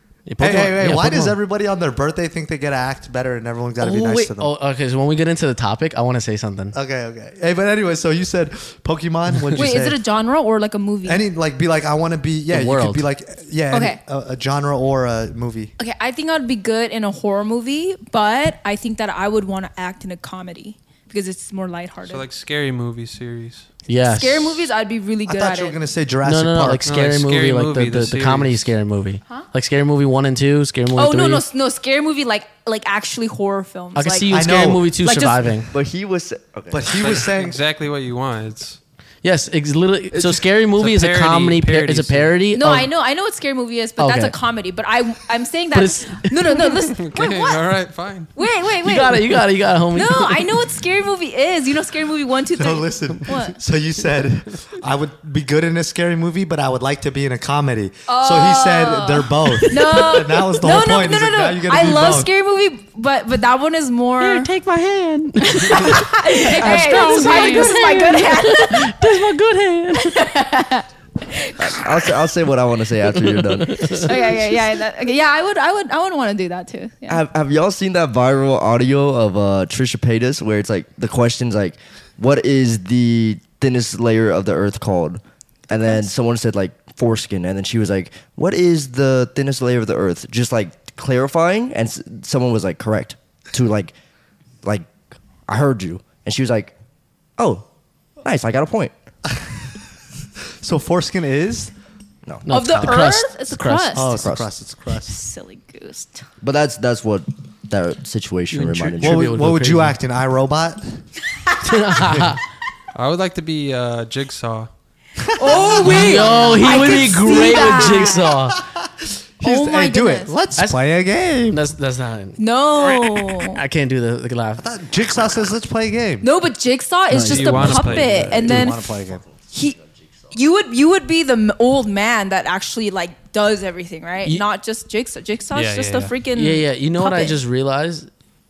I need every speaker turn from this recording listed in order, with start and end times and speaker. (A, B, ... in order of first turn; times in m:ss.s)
0:00.3-0:01.4 A
0:00.4-0:04.5 B
0:03.8-0:06.8 A
0:06.7-0:10.0 B
0:09.6-0:11.2 C
0:11.1-0:15.7 B
0:12.5-0:13.0 A
0:13.7-0:14.0 C
0:15.8-0:22.2 C
0:22.1-0:23.7 D
0:23.9-0:24.6 A
0:24.0-0:25.8 C
0:25.3-0:26.9 B
0:26.2-0:31.4 A
0:26.9-0:28.7 D
0:31.0-0:34.4 C
0:34.0-0:35.7 A
0:34.3-0:34.9 B
0:35.0-0:35.4 C
0:35.7-0:37.2 E
0:36.7-0:37.6 B
0:36.9-0:38.8 D
0:39.2-0:42.9 A
0:40.8-0:42.3 D
0:42.5-0:47.6 C
0:44.0-0:44.4 A
0:45.7-0:46.6 A
0:46.9-0:48.3 D
0:48.4-0:49.4 C
0:48.8-0:50.6 A
0:49.9-0:53.6 C
0:52.6-1:02.3 B
0:58.1-1:04.5 C
1:04.2-1:10.4 A
1:05.5-1:09.0 C
1:10.0-1:12.1 C
1:11.6-1:14.3 E
1:13.2-1:14.1 A
1:13.9-1:17.2 C
1:17.1-1:33.9 E
1:34.6-1:34.9 E
1:35.5-1:36.7 E
1:37.4-1:37.7 E
1:38.2-1:38.9 E
1:40.6-1:41.7 B
1:42.5-1:44.1 A
1:42.5-1:44.2 C
1:42.6-1:42.9 B
1:43.9-1:45.2 B
1:44.2-1:44.5 E
1:45.0-1:46.3 C
1:46.4-1:49.3 E
1:48.5-1:50.0 A
1:49.0-1:51.0 B
1:51.6-1:52.4 A
1:52.1-1:52.3 B
1:53.0-1:54.7 D
1:55.2-2:01.6 B
1:55.4-1:58.3 C
1:55.8-1:58.6 A
1:59.4-2:00.3 C
2:01.5-2:02.4 A
2:02.4-2:03.6 C
2:03.3-2:04.6 A
2:04.6-2:06.3 B
2:06.2-2:08.8 C
2:07.1-2:08.7 A
2:07.2-2:08.5 D
2:08.4-2:09.2 B
2:09.3-2:10.0 E
2:09.5-2:09.8 C
2:10.3-2:17.4 C
2:15.5-2:16.1 D
2:16.3-2:18.1 A